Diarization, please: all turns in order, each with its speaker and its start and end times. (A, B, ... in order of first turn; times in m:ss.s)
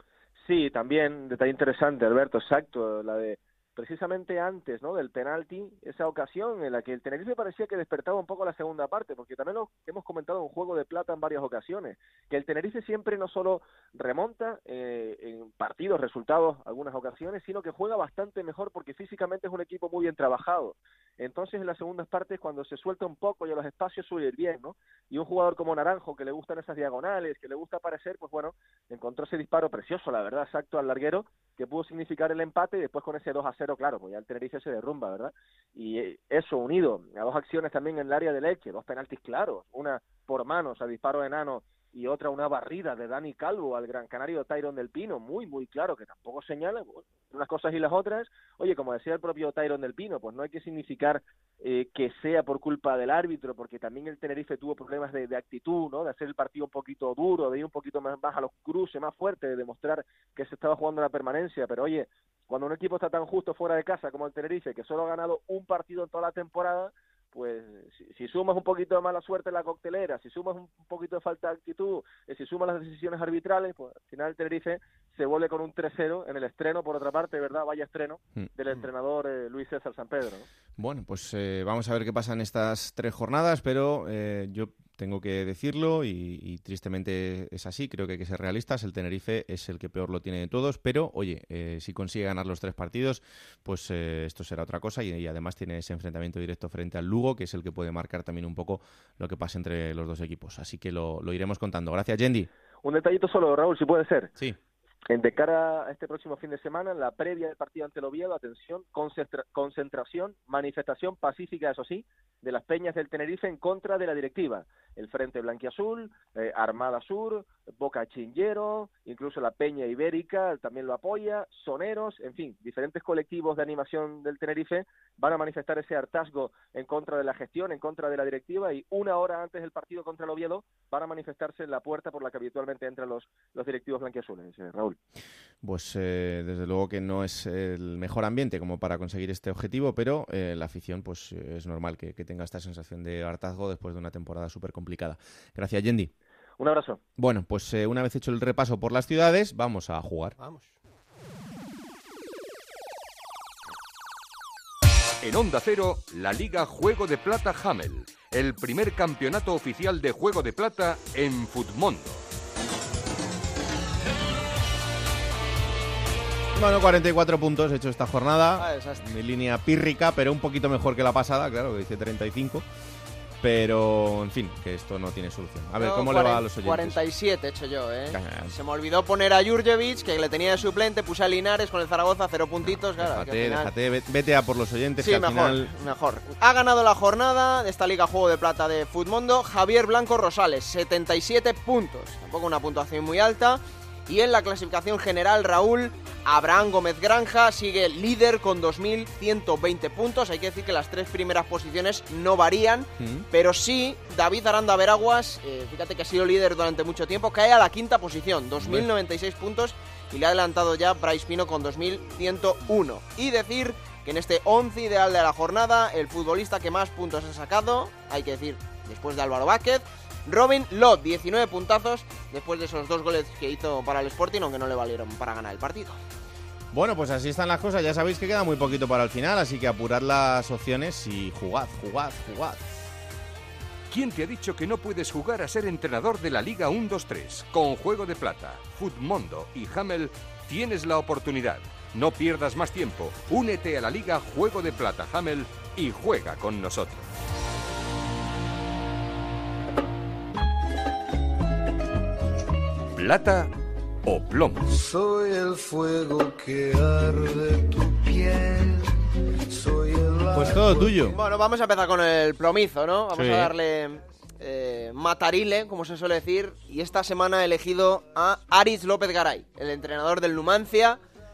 0:00.4-1:20.5 A
1:20.8-1:42.5 B
1:42.8-1:44.3 A
1:45.1-2:15.0 A
2:15.6-2:26.1 B
2:26.6-2:27.0 A
2:27.2-2:30.4 B
2:35.2-2:42.2 C
2:46.5-2:52.6 B
2:48.6-2:49.0 D
2:53.4-2:57.0 B
2:55.8-3:03.7 D
2:58.1-2:58.5 B
3:03.0-3:05.7 B
3:05.0-3:46.0 D
3:23.0-3:23.2 B
3:46.7-3:52.6 B
3:53.9-4:07.1 C
4:12.9-4:13.5 C
4:14.0-4:14.8 C
4:15.2-4:16.7 E
4:20.3-4:21.2 B
4:20.4-4:20.9 E
4:21.1-4:31.0 D
4:23.1-4:23.5 B